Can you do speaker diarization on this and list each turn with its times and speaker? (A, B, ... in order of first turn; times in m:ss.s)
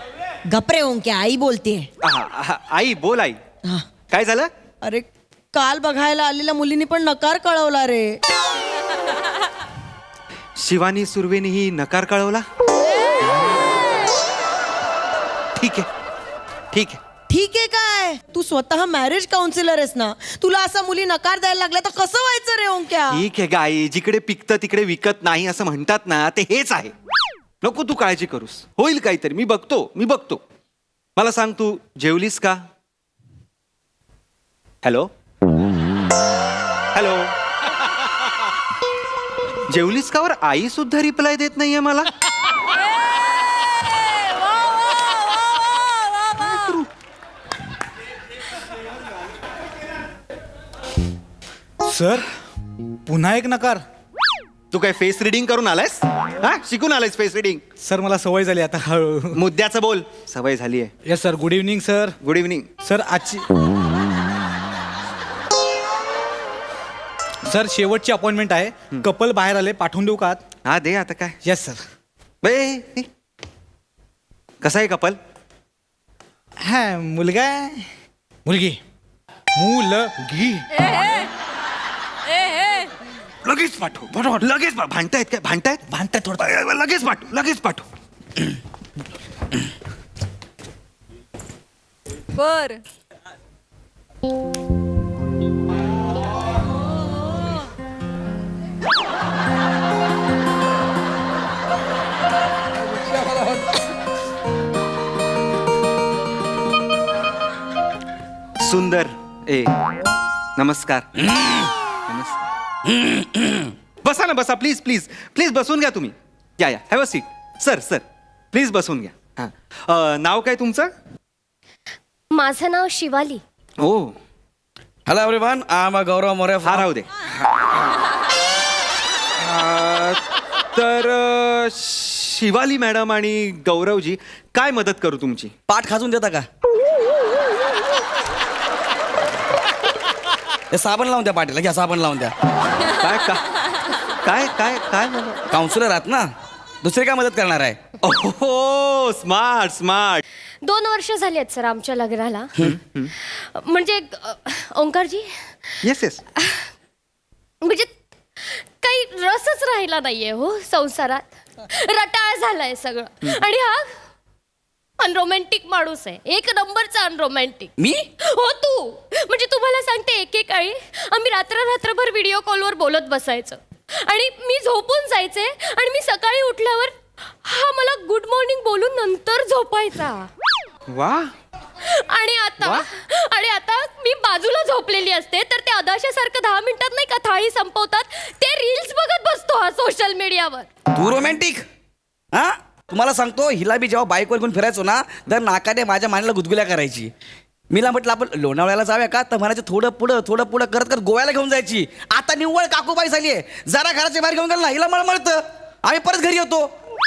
0:00.4-0:01.9 A
0:02.0-0:03.4 B
0:04.1-0:04.5 B
0:04.8-0:08.2 A
0:10.6-0:12.4 B
0:15.6-0:15.9 B
0:16.7-0:17.0 B
0:17.3-0:23.2 A
0:23.1-0:26.9 B
0:27.6-0:30.4 B
0:31.2-0:32.6 B
0:34.8-0:35.1 B
0:36.9-0:37.3 B
0:39.7-0:42.1 B
0:46.5-0:46.8 B
0:51.8-0:52.3 C
0:53.1-0:53.8 C
0:54.7-0:57.6 B
0:57.8-0:59.4 C
0:59.3-1:00.9 B
1:01.0-1:02.2 C
1:02.2-1:02.7 B
1:02.8-1:03.5 C
1:07.4-1:10.4 C
1:10.6-1:11.4 B
1:11.4-1:11.8 C
1:12.4-1:13.1 B
1:14.6-1:15.2 B
1:16.6-1:17.9 C
1:18.4-1:18.8 C
1:19.5-1:20.7 C
1:23.4-1:25.8 B
1:25.9-1:26.5 C
1:26.4-1:27.8 B
1:48.6-1:49.7 B
1:50.6-1:51.1 B
1:51.2-1:51.7 D
1:52.1-1:52.4 B
1:52.8-1:53.7 D
1:54.0-2:00.9 B
2:02.3-2:03.4 E
2:03.8-2:04.2 B
2:05.1-2:06.9 D
2:06.6-2:07.7 B
2:09.4-2:10.2 B
2:10.8-2:15.5 B
2:15.7-2:16.5 D
2:20.7-2:22.3 D
2:23.0-2:23.4 B
2:24.2-2:25.4 B
2:25.5-2:26.3 D
2:26.8-2:27.8 D
2:28.0-2:30.2 B
2:30.6-2:32.5 E
2:32.6-2:33.1 B
2:33.2-2:35.4 E
2:35.8-2:36.2 B
2:36.4-2:36.7 E
2:37.6-2:43.9 E
2:45.0-3:00.3 E
2:47.8-2:48.0 D
3:00.9-3:01.3 B
3:01.8-3:10.7 E
3:10.9-3:11.6 D
3:12.3-3:17.1 D
3:17.7-3:26.7 D